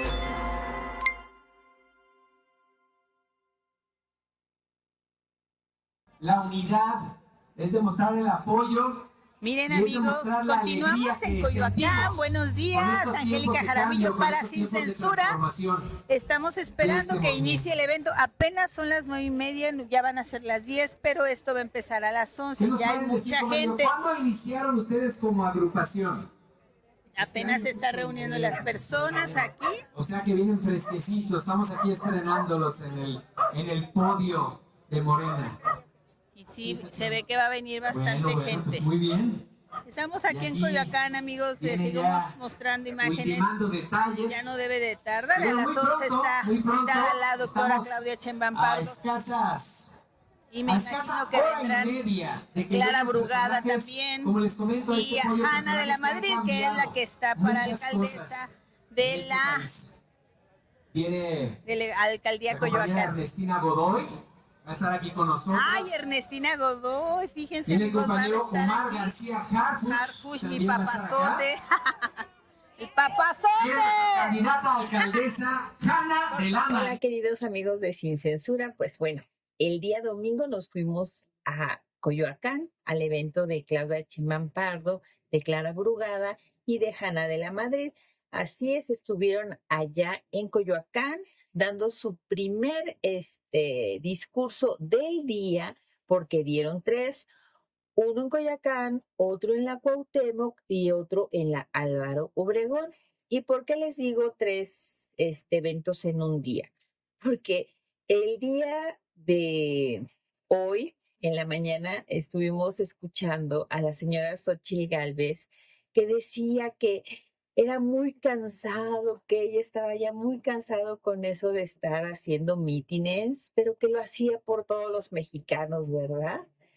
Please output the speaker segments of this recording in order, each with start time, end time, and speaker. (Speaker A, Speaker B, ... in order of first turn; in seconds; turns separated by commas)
Speaker A: 6.2-9.1, Speaker B: 9.4-15.4, Speaker A: 9.7-15.9, Speaker B: 16.1-23.9, Speaker A: 16.8-17.6, Speaker A: 22.6-26.3, Speaker B: 27.2-29.8, Speaker A: 27.2-35.5, Speaker B: 36.4-38.9, Speaker A: 36.6-37.2, Speaker A: 37.9-39.5, Speaker B: 39.9-43.5, Speaker A: 40.3-40.9, Speaker A: 41.6-42.3, Speaker A: 43.0-44.5, Speaker B: 44.3-49.0, Speaker A: 45.4-48.0, Speaker A: 48.5-50.0, Speaker B: 50.5-52.0, Speaker A: 50.7-60.0, Speaker B: 52.7-54.3, Speaker B: 54.9-59.7, Speaker A: 60.9-61.6, Speaker B: 61.6-63.2, Speaker A: 62.5-64.1, Speaker A: 64.7-66.0, Speaker B: 65.5-69.1, Speaker A: 67.7-71.5, Speaker B: 69.9-72.1, Speaker B: 72.8-74.4, Speaker A: 73.6-77.0, Speaker C: 76.3-97.3, Speaker C: 98.0-106.7, Speaker C: 107.2-126.4